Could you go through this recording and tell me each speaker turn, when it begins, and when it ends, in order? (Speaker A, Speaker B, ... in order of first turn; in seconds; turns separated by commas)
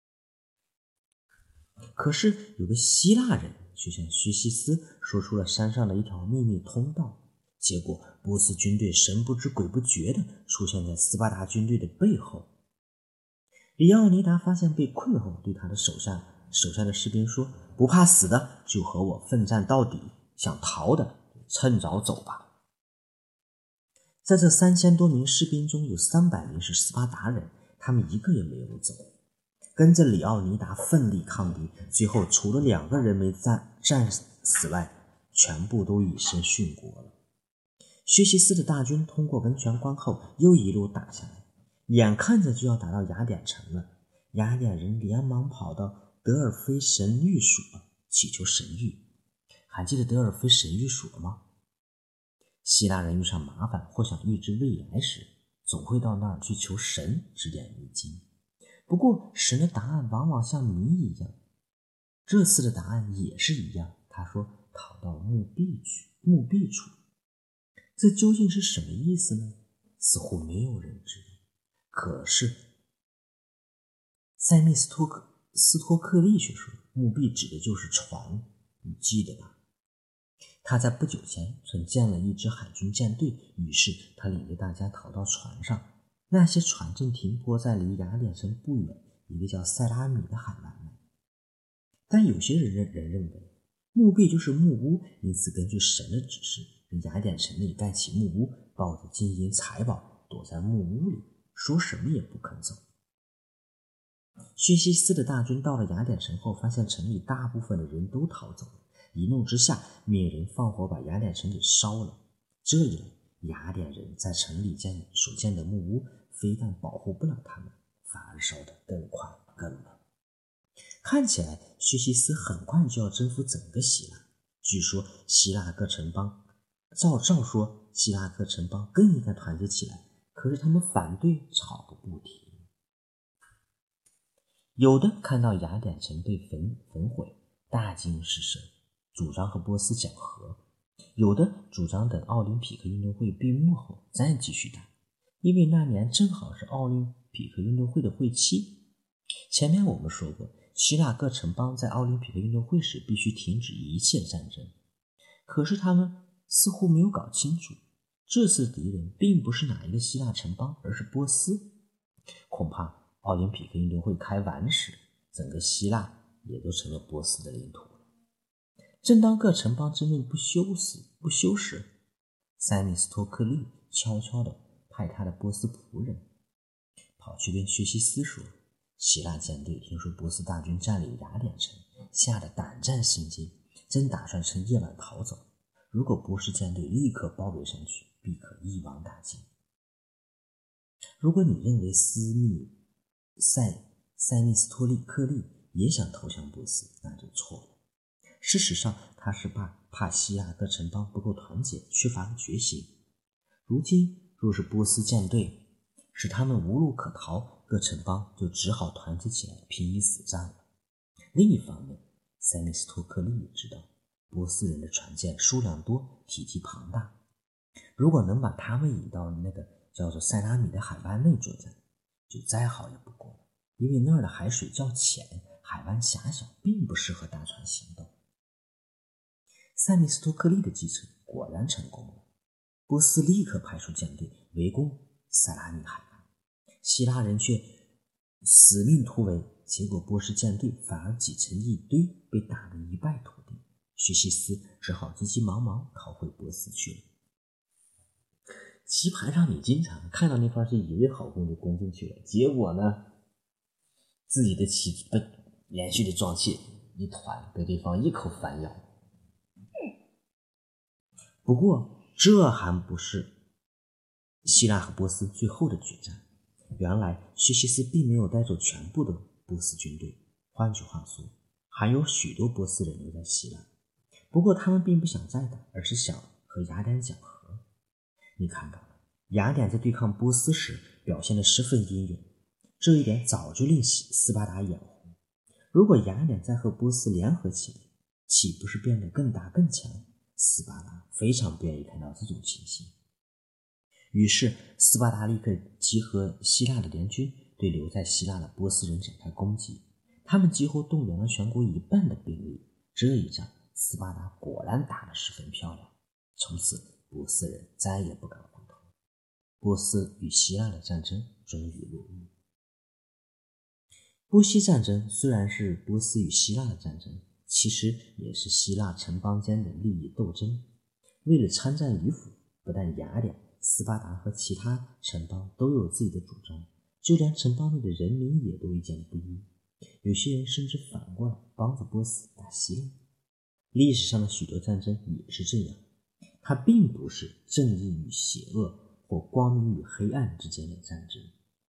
Speaker A: 1.9-12.5, Speaker A: 13.8-22.5, Speaker A: 24.2-29.1, Speaker A: 29.8-37.1, Speaker A: 38.1-49.0, Speaker A: 49.7-51.4, Speaker A: 52.6-58.2, Speaker A: 58.9-61.4, Speaker A: 62.3-66.9, Speaker A: 68.0-71.4, Speaker A: 71.9-72.6, Speaker A: 74.4-79.6, Speaker A: 80.6-91.0, Speaker A: 92.1-102.8, Speaker A: 104.6-120.0, Speaker A: 121.0-126.4, Speaker A: 126.9-132.7, Speaker A: 134.8-140.6, Speaker A: 141.2-144.9, Speaker A: 145.4-148.8, Speaker A: 149.5-154.8, Speaker A: 155.5-161.7, Speaker A: 162.5-168.0, Speaker A: 169.0-171.9, Speaker A: 172.6-176.2, Speaker A: 177.2-189.5, Speaker A: 191.2-192.8, Speaker A: 193.4-197.8, Speaker A: 198.4-202.9, Speaker A: 203.7-210.6, Speaker A: 211.3-217.2, Speaker A: 218.0-228.1, Speaker A: 229.8-232.3, Speaker A: 232.9-236.3, Speaker A: 236.8-237.7, Speaker A: 238.4-247.0, Speaker A: 248.9-253.0, Speaker A: 254.3-258.8, Speaker A: 261.4-263.3, Speaker A: 264.4-266.2, Speaker A: 266.8-273.7, Speaker A: 274.3-277.6, Speaker A: 278.4-282.3, Speaker A: 282.8-285.1, Speaker A: 285.7-292.9, Speaker A: 294.1-308.9, Speaker A: 309.6-312.3, Speaker A: 314.3-320.6, Speaker A: 321.2-329.5, Speaker A: 330.0-333.0, Speaker A: 333.7-335.8, Speaker A: 336.4-341.3